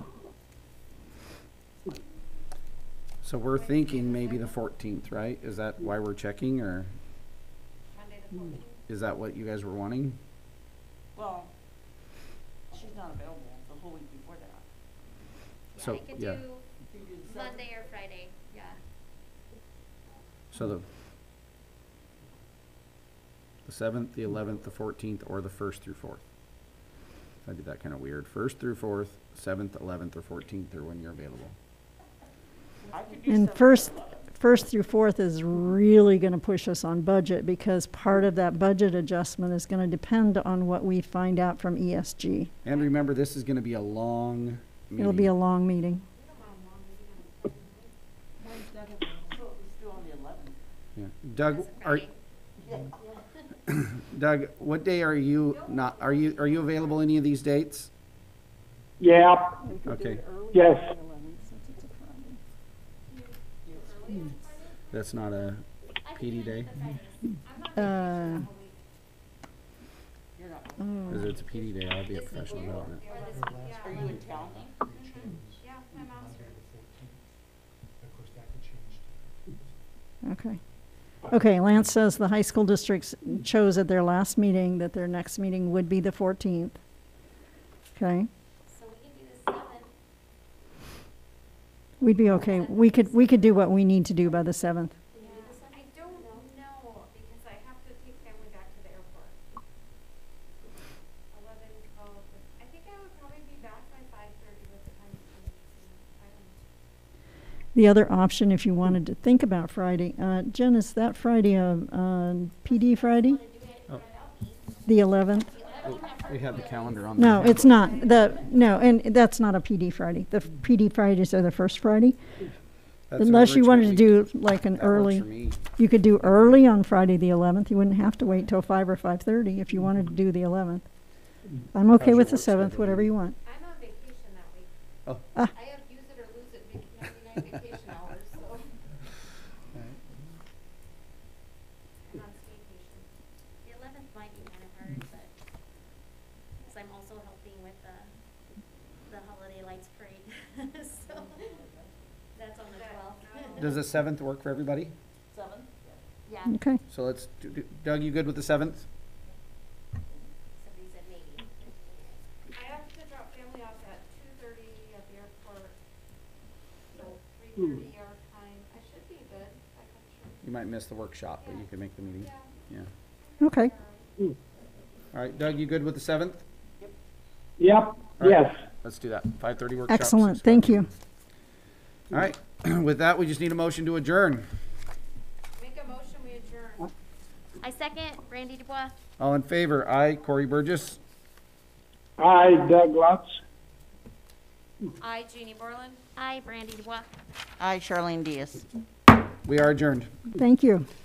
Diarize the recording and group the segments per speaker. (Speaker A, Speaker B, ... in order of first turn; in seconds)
Speaker A: 3.2-7.0, 8.9-10.2, 15.8-16.4, 20.5-20.9, 23.6-26.2, 27.4-31.6, 42.6-45.3, 51.0-52.1, 53.7-57.9, 59.9-60.2, 64.9-66.7, 71.1-73.0, 115.8-117.9, 123.1-125.6, 126.2-126.6, 131.9-133.1, 139.7-140.2, 153.6-154.9, 156.9-158.9, 170.4-172.9, 175.1-176.4, 178.2-180.9, 182.1-184.5, 189.2-191.0, 199.4-200.2
Speaker B: 3.5-4.6, 7.9-8.8, 46.1-48.0, 55.5-57.0, 63.1-64.8, 67.4-68.8, 71.6-76.7, 95.2-99.4, 101.3-106.6, 133.4-134.7, 135.4-138.8, 142.0-143.1, 152.7-153.8, 162.5-165.8, 166.9-170.4, 171.4-172.6, 173.2-174.3, 185.6-186.9, 195.0-196.0
Speaker C: 11.2-11.5, 12.7-14.7, 16.8-17.9, 32.9-34.3, 48.4-50.6, 52.6-53.2, 63.6-64.3, 70.3-71.5, 73.6-74.8, 151.1-152.1, 155.3-156.0, 197.6-198.7
Speaker D: 15.7-16.7, 17.2-18.8, 51.5-52.1, 66.0-67.4, 72.1-73.8, 88.7-89.9, 92.1-93.7, 95.1-96.4, 112.7-118.6, 143.6-145.3, 146.6-148.2, 149.1-151.6, 152.3-153.8, 156.2-156.6, 160.6-162.2, 187.6-188.9, 196.2-197.1
Speaker E: 33.3-42.5, 45.0-46.0, 59.6-62.4, 67.8-68.5, 70.8-71.3, 80.2-80.6, 81.2-86.8, 88.0-88.3, 92.0-94.9, 107.8-113.4, 114.9-115.5, 117.2-122.2, 123.2-130.9, 131.7-133.4, 156.5-156.8, 173.4-173.7, 179.9-180.9, 200.3-200.9
Speaker F: 48.5-49.2, 73.1-77.3, 77.9-79.8
Speaker G: 59.0-59.6, 60.5-60.9, 177.6-178.6, 192.2-193.4